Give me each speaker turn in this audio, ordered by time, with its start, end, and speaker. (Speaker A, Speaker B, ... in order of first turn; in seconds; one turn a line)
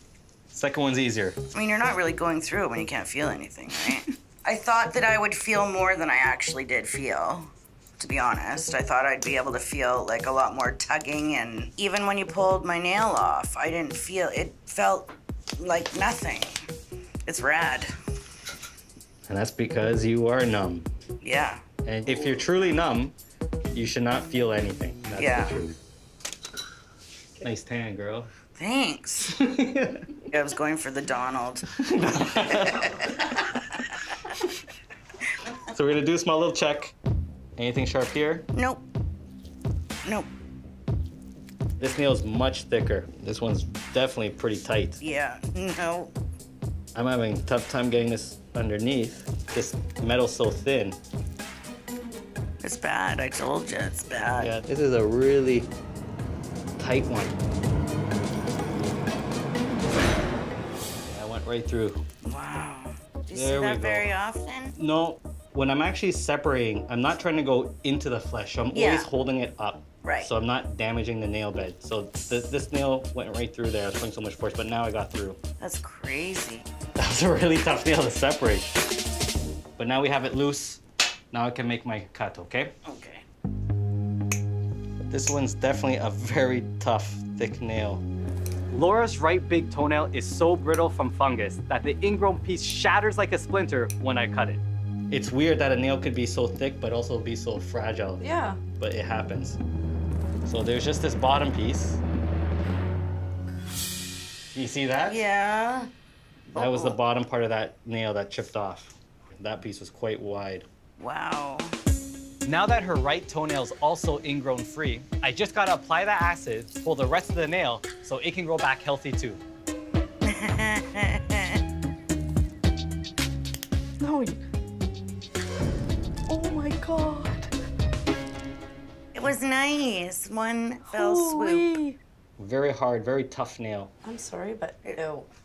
Speaker A: 0.5-1.4
Speaker B: 1.5-16.6
Speaker B: 17.3-17.9
Speaker A: 19.3-20.9
Speaker B: 21.2-21.6
Speaker A: 21.9-23.1
Speaker A: 23.7-25.8
Speaker B: 25.1-25.5
Speaker A: 27.4-28.3
Speaker B: 28.6-29.3
Speaker A: 29.3-30.2
Speaker B: 30.3-31.7
Speaker A: 31.8-32.9
Speaker B: 32.2-33.3
Speaker A: 35.7-36.9
Speaker A: 37.6-38.5
Speaker B: 38.5-38.8
Speaker A: 41.8-45.0
Speaker B: 45.0-46.1
Speaker A: 46.9-51.0
Speaker B: 52.6-54.5
Speaker A: 54.4-55.7
Speaker A: 56.8-57.4
Speaker A: 61.1-62.0
Speaker B: 62.2-64.8
Speaker A: 63.3-64.1
Speaker A: 64.8-75.4
Speaker B: 68.7-69.1
Speaker B: 70.0-70.3
Speaker B: 75.6-76.7
Speaker A: 77.0-78.7
Speaker A: 79.8-80.8
Speaker A: 81.3-82.7
Speaker B: 82.8-83.2
Speaker A: 85.0-88.0
Speaker A: 88.7-98.3
Speaker C: 98.2-98.6
Speaker A: 98.8-99.6
Speaker A: 100.4-102.0
Speaker A: 104.5-105.2
Speaker B: 105.0-105.9
Speaker A: 106.5-110.7
Speaker B: 106.5-107.0
Speaker B: 111.0-111.7
Speaker A: 112.4-119.4
Speaker B: 120.2-121.6
Speaker C: 124.0-124.4
Speaker C: 126.3-127.5
Speaker B: 129.1-131.8
Speaker C: 130.9-132.0
Speaker A: 132.4-133.9
Speaker C: 134.0-135.3